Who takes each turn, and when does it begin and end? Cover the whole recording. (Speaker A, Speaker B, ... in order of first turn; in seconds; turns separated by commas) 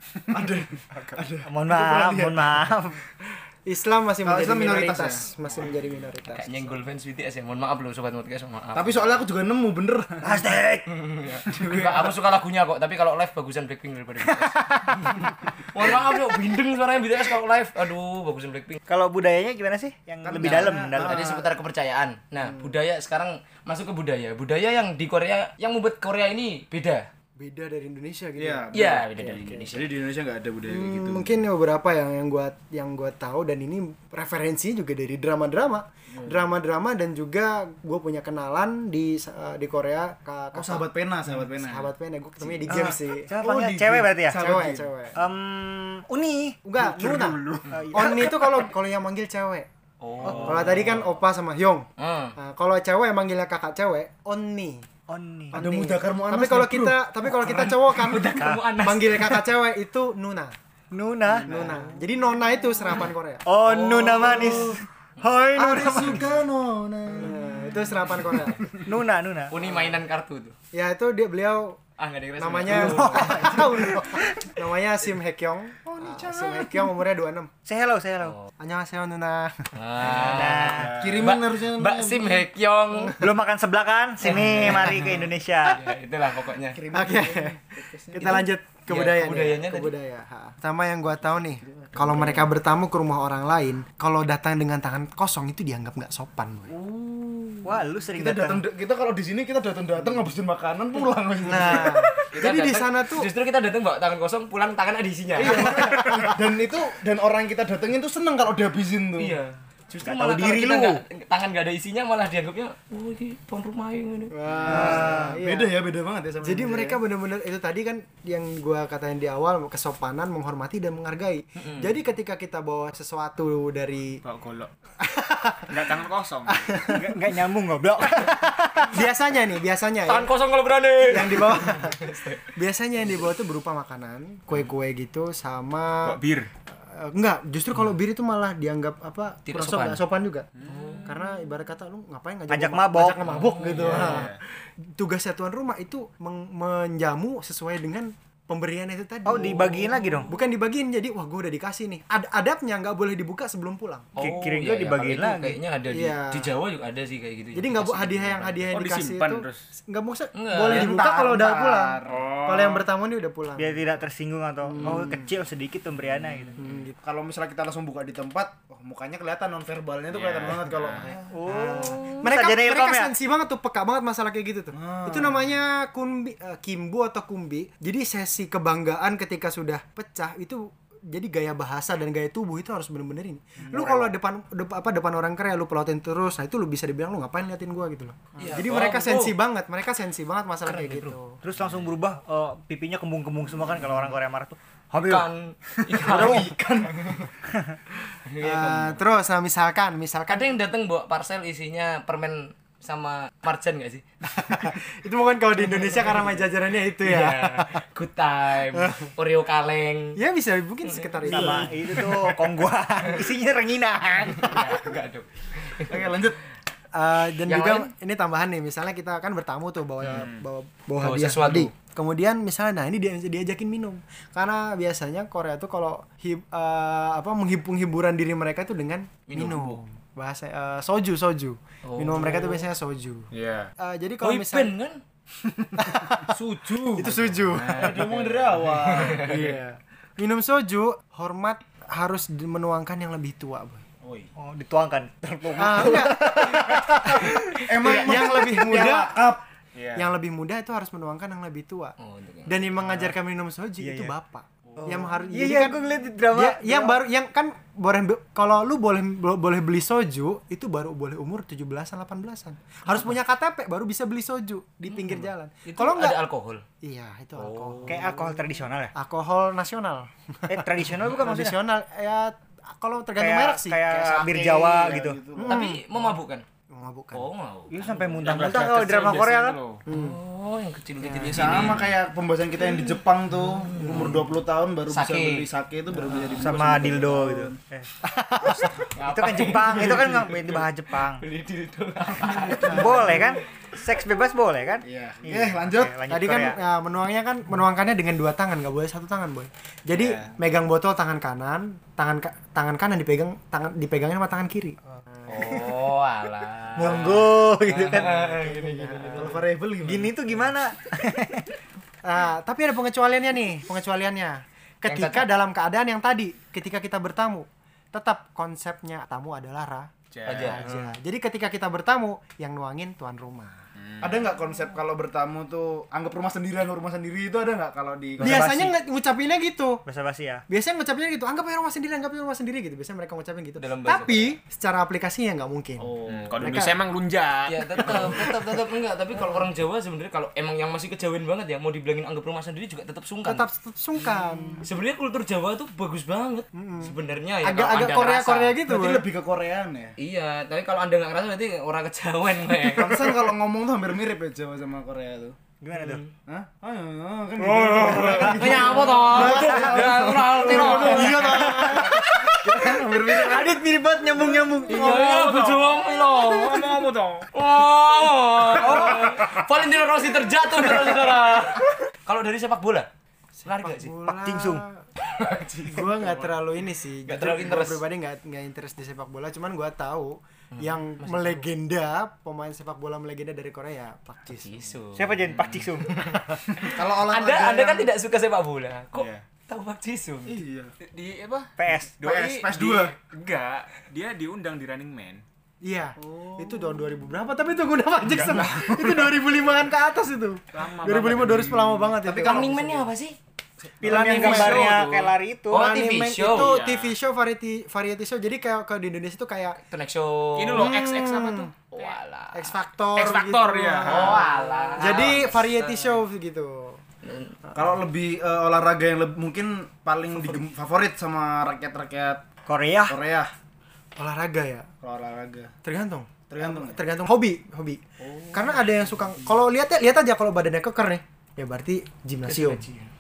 Speaker A: 0.3-2.6, Speaker B: 0.9-1.2, Speaker C: 1.5-3.0, Speaker D: 3.7-6.7, Speaker A: 4.2-5.7, Speaker E: 6.3-9.2, Speaker A: 8.7-10.5, Speaker C: 10.2-10.9, Speaker E: 10.9-18.8, Speaker A: 11.5-12.1, Speaker C: 18.9-21.2, Speaker A: 20.2-21.5, Speaker E: 20.4-27.1, Speaker D: 22.4-22.8, Speaker D: 27.4-29.7, Speaker A: 28.4-31.4, Speaker E: 28.7-29.8, Speaker D: 30.6-43.4, Speaker A: 40.5-44.9, Speaker C: 42.7-44.4, Speaker D: 44.3-45.2, Speaker C: 45.1-46.6, Speaker D: 46.6-47.4, Speaker A: 46.8-48.2, Speaker C: 47.7-48.7, Speaker D: 47.9-49.7, Speaker B: 50.0-51.0, Speaker D: 50.2-54.9, Speaker C: 50.2-50.5, Speaker E: 52.0-52.4, Speaker C: 55.1-55.6, Speaker A: 55.5-57.7, Speaker D: 55.5-60.5, Speaker C: 57.4-57.8, Speaker E: 57.6-59.3, Speaker C: 58.4-59.3, Speaker C: 60.9-61.8, Speaker A: 61.3-61.9, Speaker D: 61.5-63.5, Speaker C: 63.0-66.3, Speaker E: 63.7-64.7, Speaker A: 64.0-64.8, Speaker A: 65.5-68.2, Speaker D: 65.7-66.2, Speaker D: 67.1-68.6, Speaker C: 68.8-69.5, Speaker E: 69.5-70.5, Speaker D: 69.7-70.0, Speaker D: 70.7-71.8, Speaker E: 72.0-73.4, Speaker D: 72.4-77.5, Speaker C: 72.7-74.2, Speaker A: 73.4-73.6, Speaker A: 75.9-76.9, Speaker C: 77.7-78.4, Speaker D: 78.6-79.6, Speaker E: 79.8-83.2, Speaker B: 80.1-81.1, Speaker C: 80.2-81.1, Speaker A: 80.8-82.5, Speaker C: 83.2-85.9, Speaker E: 84.2-86.8, Speaker A: 86.7-88.5, Speaker D: 86.9-87.6, Speaker D: 88.1-96.7, Speaker E: 88.9-89.9, Speaker A: 91.2-92.5, Speaker A: 96.7-102.0, Speaker C: 97.6-98.6, Speaker D: 101.4-103.3, Speaker E: 101.8-106.0, Speaker A: 105.4-109.4, Speaker D: 105.5-106.4, Speaker E: 109.2-115.0, Speaker C: 110.0-111.0, Speaker D: 114.3-115.8, Speaker A: 114.7-117.0, Speaker D: 116.4-124.2, Speaker E: 121.6-121.9, Speaker B: 124.2-124.7, Speaker D: 125.0-126.0, Speaker B: 125.7-126.7, Speaker D: 126.5-127.2, Speaker C: 126.8-128.4, Speaker D: 128.2-130.3, Speaker E: 130.1-132.4, Speaker D: 131.1-136.2, Speaker B: 136.0-136.5, Speaker D: 136.8-140.5, Speaker E: 139.5-140.0, Speaker B: 140.6-141.1, Speaker E: 140.7-141.1, Speaker D: 141.0-144.4, Speaker C: 142.5-143.2, Speaker E: 143.3-144.3, Speaker B: 143.7-144.4, Speaker D: 144.9-154.1, Speaker C: 149.2-150.3, Speaker E: 154.2-158.7, Speaker C: 154.2-155.6, Speaker D: 155.9-156.5, Speaker D: 157.5-164.0, Speaker B: 158.7-159.7, Speaker E: 160.3-160.9, Speaker A: 160.6-162.3, Speaker B: 162.1-162.9, Speaker C: 163.6-166.6, Speaker D: 164.6-165.3, Speaker D: 166.6-167.0, Speaker A: 167.0-171.2, Speaker B: 170.1-171.1, Speaker C: 171.3-173.1, Speaker D: 171.5-191.4, Speaker A: 174.7-175.5, Speaker A: 183.7-184.1, Speaker E: 188.4-189.4, Speaker E: 190.7-191.2, Speaker C: 191.4-195.3, Speaker E: 195.0-197.3, Speaker A: 196.0-196.9, Speaker C: 196.1-196.5, Speaker E: 198.2-199.0, Speaker D: 198.4-200.6, Speaker E: 200.3-204.0, Speaker D: 204.2-207.8, Speaker E: 205.6-206.5, Speaker E: 207.0-210.2, Speaker D: 208.7-209.1, Speaker D: 210.2-212.4, Speaker E: 210.9-211.7, Speaker C: 211.2-214.7, Speaker E: 214.3-216.2, Speaker A: 215.9-216.4, Speaker D: 216.9-234.7, Speaker E: 217.5-217.9, Speaker B: 220.0-220.4, Speaker E: 221.0-221.7, Speaker E: 229.3-229.8, Speaker E: 231.8-232.7, Speaker B: 233.3-233.7, Speaker E: 234.2-235.0, Speaker D: 235.8-236.4, Speaker A: 236.3-239.5, Speaker D: 236.9-238.1, Speaker E: 237.5-239.2, Speaker D: 239.2-243.8, Speaker A: 244.0-244.3, Speaker C: 244.4-246.6, Speaker D: 245.6-249.2, Speaker A: 246.2-249.4, Speaker E: 247.4-248.4, Speaker B: 249.8-250.1, Speaker D: 249.9-251.9, Speaker E: 252.0-252.7, Speaker D: 252.5-255.8, Speaker C: 253.8-254.1, Speaker C: 254.8-257.0, Speaker D: 256.3-266.2, Speaker E: 264.9-266.6, Speaker D: 266.8-268.1, Speaker E: 267.4-268.1, Speaker C: 267.8-268.9, Speaker D: 268.9-273.8, Speaker C: 270.5-271.6, Speaker C: 273.2-275.2, Speaker A: 273.9-275.6, Speaker D: 275.4-276.2, Speaker E: 275.5-276.4, Speaker D: 276.7-277.3, Speaker E: 277.1-278.1, Speaker C: 277.7-279.6, Speaker B: 278.2-279.8, Speaker D: 278.3-279.2, Speaker D: 279.9-280.2, Speaker E: 279.9-281.9, Speaker D: 281.0-281.7, Speaker A: 281.3-287.6, Speaker E: 283.5-284.2, Speaker E: 284.9-285.5, Speaker C: 286.4-287.9, Speaker D: 288.0-288.9, Speaker E: 288.9-293.4, Speaker C: 289.1-291.2, Speaker A: 292.2-293.3, Speaker D: 292.7-293.0, Speaker C: 292.7-296.6, Speaker A: 294.8-296.0, Speaker D: 296.1-305.6, Speaker B: 299.9-300.3, Speaker E: 305.3-309.3, Speaker C: 306.8-308.1, Speaker D: 307.9-309.4, Speaker A: 309.0-310.2, Speaker C: 309.8-311.5, Speaker D: 312.0-323.7, Speaker E: 314.9-315.3, Speaker B: 320.1-320.8, Speaker E: 320.3-320.8, Speaker B: 323.8-324.3, Speaker A: 324.0-328.4, Speaker C: 328.2-328.8, Speaker D: 328.2-329.8, Speaker C: 329.9-330.4, Speaker D: 330.5-335.9, Speaker E: 333.6-334.4, Speaker A: 335.8-336.6, Speaker B: 336.1-338.3, Speaker D: 336.4-336.8, Speaker E: 337.5-343.5, Speaker D: 339.2-339.5, Speaker D: 343.2-344.7, Speaker E: 344.6-348.6, Speaker D: 346.5-349.1, Speaker A: 348.6-349.9, Speaker E: 350.0-353.1, Speaker A: 352.8-355.4, Speaker C: 355.6-356.0, Speaker E: 355.8-356.1, Speaker A: 356.3-363.6, Speaker B: 357.4-359.1, Speaker E: 357.9-361.7, Speaker D: 358.2-359.8, Speaker D: 360.3-365.1, Speaker E: 364.7-366.6, Speaker B: 364.7-367.3, Speaker E: 367.3-372.9, Speaker B: 368.7-369.0, Speaker D: 373.4-374.8, Speaker E: 373.4-373.9, Speaker C: 374.1-374.6, Speaker E: 375.0-376.2, Speaker D: 375.7-384.6, Speaker E: 377.1-377.8, Speaker E: 380.5-381.5, Speaker E: 384.3-390.4, Speaker C: 384.9-386.0, Speaker A: 386.5-387.9, Speaker B: 388.9-389.2, Speaker A: 390.3-390.7, Speaker B: 390.8-391.6, Speaker C: 391.6-391.9, Speaker A: 392.0-392.9, Speaker B: 392.1-395.2, Speaker D: 395.6-402.8, Speaker A: 396.1-396.7, Speaker B: 398.1-399.1, Speaker B: 400.5-402.0, Speaker A: 401.9-402.8, Speaker E: 402.2-403.2, Speaker C: 403.8-405.7, Speaker B: 403.8-405.2, Speaker D: 403.9-404.8, Speaker E: 405.5-406.5, Speaker D: 405.5-409.6, Speaker B: 406.2-406.9, Speaker E: 409.6-410.8, Speaker B: 410.4-412.0, Speaker D: 410.6-411.5, Speaker E: 411.7-412.5, Speaker D: 412.3-416.8, Speaker B: 412.9-414.4, Speaker E: 413.8-416.0, Speaker E: 417.0-417.4, Speaker A: 417.6-422.2, Speaker C: 422.5-423.0, Speaker A: 422.9-423.3, Speaker D: 424.0-424.7, Speaker A: 424.8-425.5, Speaker D: 425.6-427.8, Speaker A: 426.3-426.8, Speaker A: 428.2-428.7, Speaker D: 428.3-432.6, Speaker E: 432.3-432.9